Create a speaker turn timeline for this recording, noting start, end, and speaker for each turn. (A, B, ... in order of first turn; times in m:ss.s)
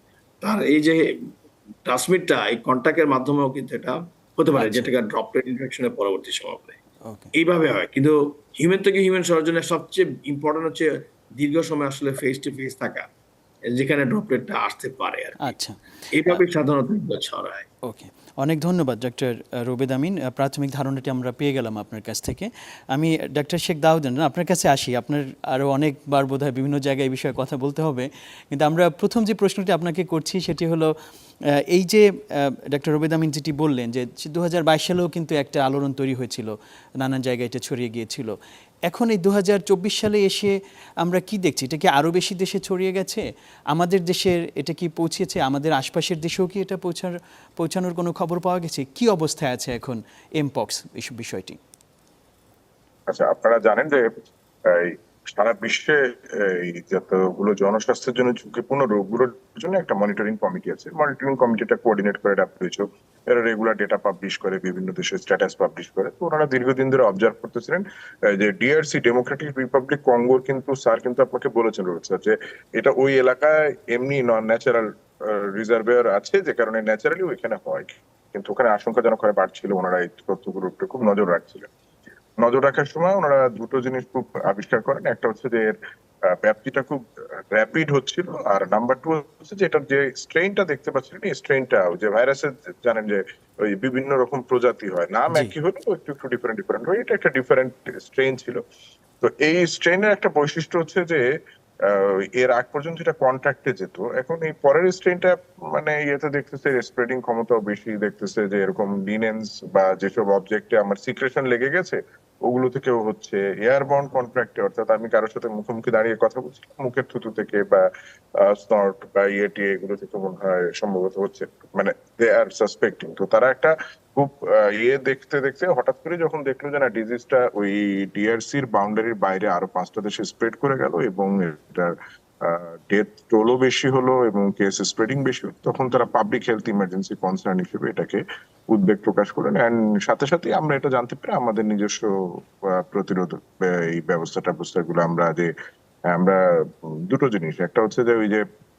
0:00.4-0:01.0 A
0:01.8-0:06.8 A
0:04.5-0:04.9 B
0:07.0-0:07.3 B
0:07.4-0:13.0 A
0:13.7-0:15.5 A
0:15.4-0:16.4 B
0:16.1-0:17.7 A
0:17.8-0:30.9 B
0:31.7-0:38.3 B
0:38.9-0:51.6 B
0:53.1-1:21.7 C
1:22.4-1:38.6 C
1:39.2-1:41.3 C
1:41.8-2:25.5 C
2:26.1-2:28.4 C